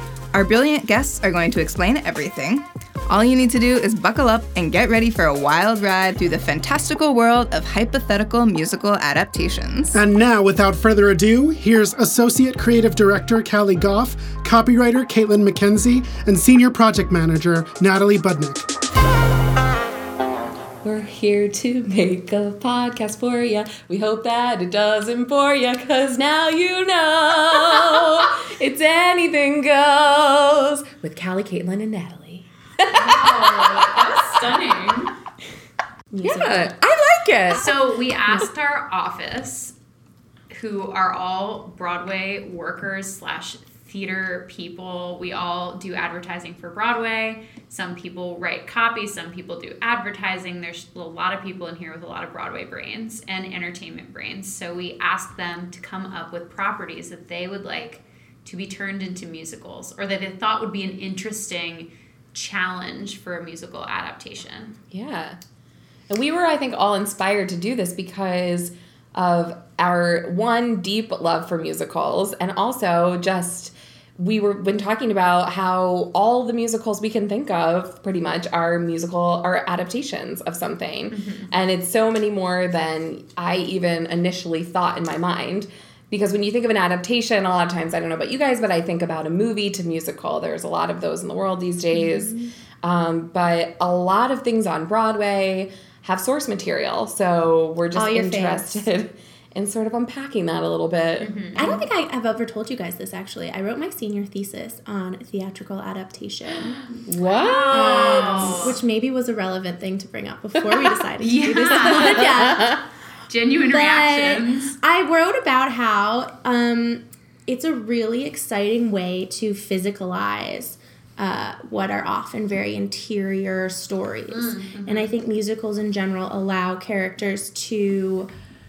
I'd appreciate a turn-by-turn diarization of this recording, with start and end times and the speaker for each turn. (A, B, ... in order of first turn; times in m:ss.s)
0:00.3-0:10.0 A
0:09.9-0:18.7 B
0:20.8-0:33.9 C
0:32.9-0:35.1 D
0:36.1-0:36.7 E
0:36.2-0:37.7 C
0:37.5-0:39.7 D
0:40.5-1:04.7 D
1:04.9-1:05.4 C
1:06.1-1:41.7 C
1:21.1-1:21.5 D
1:31.9-1:32.5 E
1:38.0-1:38.9 E
1:41.2-1:41.8 D
1:41.6-1:46.8 E
1:47.1-1:48.7 C
1:47.2-1:48.8 D
1:47.7-1:52.8 E
1:51.2-1:52.4 D
1:51.9-1:52.8 C
1:53.3-1:54.8 D
1:53.7-2:08.3 E
2:04.3-2:05.1 D